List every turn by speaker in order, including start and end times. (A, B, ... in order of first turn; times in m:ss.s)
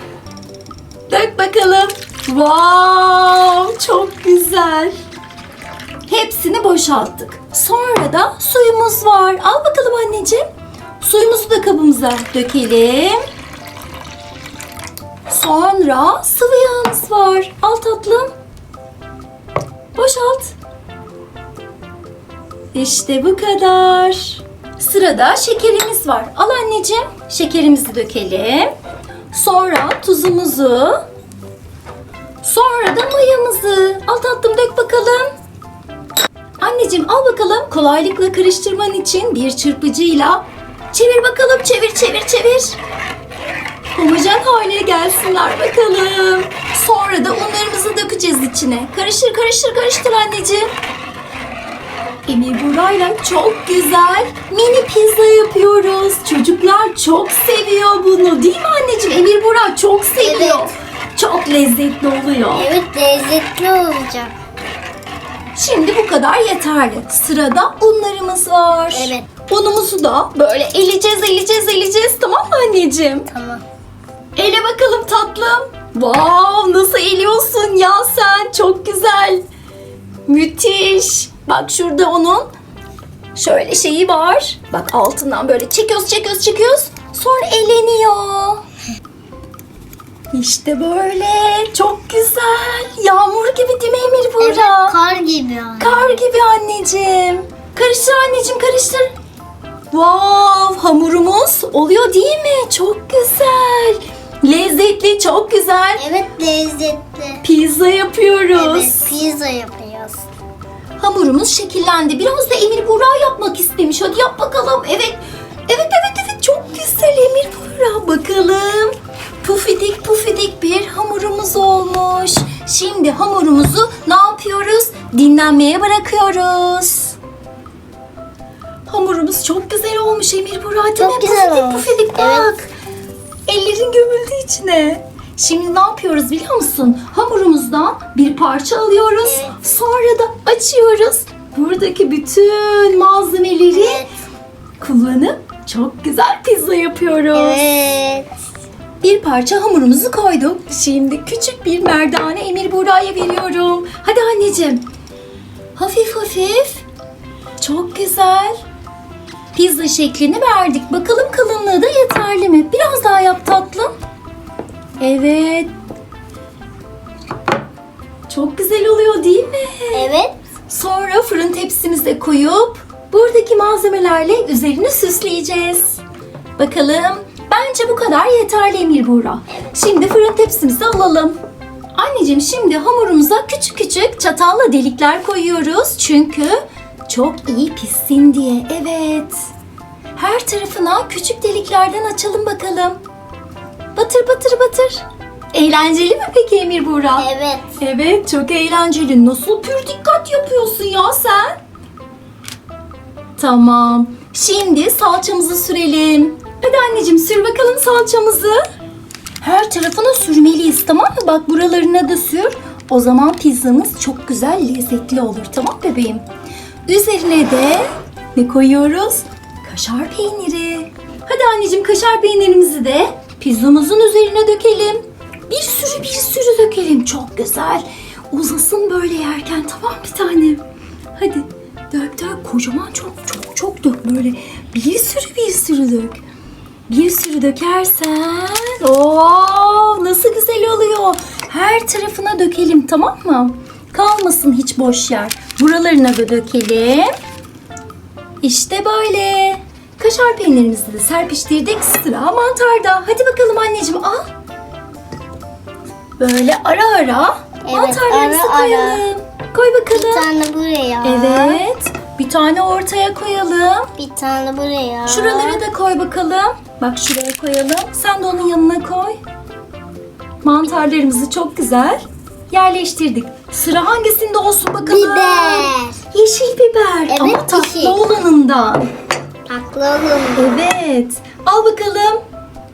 0:01.1-0:05.0 A
0:06.1-0:10.4 A
0:11.0-0:13.2 A
0:15.3-0:18.3 A
0:19.9-0:20.6 A
0:22.7-0:28.7 A
0:29.3-0:31.0 A
0:32.4-0:35.3 A
0:36.6-0:42.8 A
0:43.9-0:50.7 A
0:52.3-1:02.7 A
1:00.2-1:00.7 B
1:02.5-1:04.4 B
1:05.5-1:13.3 A
1:08.9-1:09.3 B
1:13.3-1:13.6 B
1:14.4-1:19.4 A
1:20.2-1:22.5 A
1:23.3-1:28.6 A
1:30.3-1:35.0 A
1:34.4-1:36.2 B
1:35.8-1:39.1 A
1:39.9-1:46.0 A
1:46.0-1:47.4 B
1:47.4-1:49.1 A
1:48.5-1:50.2 B
1:51.0-2:07.2 A
2:08.9-2:12.7 A
2:11.0-2:12.5 B
2:13.5-2:24.0 A
2:19.2-2:19.6 B
2:23.7-2:24.1 B
2:24.8-2:27.6 A
2:27.3-2:28.3 B
2:29.0-2:34.8 A
2:35.7-2:36.8 A
2:37.6-2:38.6 A
2:39.5-2:43.9 A
2:45.0-2:45.7 A
2:48.3-2:50.1 A
2:49.9-2:50.3 B
2:50.7-2:56.0 A
2:56.6-3:01.4 A
3:01.9-3:09.4 A
3:10.1-3:13.0 A
3:13.9-3:17.3 A
3:17.2-3:17.8 B
3:17.8-3:21.6 A
3:23.4-3:28.6 A
3:29.4-3:36.2 A
3:36.8-3:50.6 A
3:51.2-3:56.2 A
3:56.9-4:07.1 A
4:08.4-4:14.3 A
4:16.2-4:20.3 A
4:17.6-4:19.0 B
4:19.9-4:21.6 B
4:21.0-4:23.9 A
4:24.0-4:25.6 B
4:25.1-4:29.2 A
4:30.4-4:38.9 A
4:34.8-4:36.0 B
4:37.1-4:38.0 B
4:39.4-4:40.6 B
4:40.4-4:42.2 A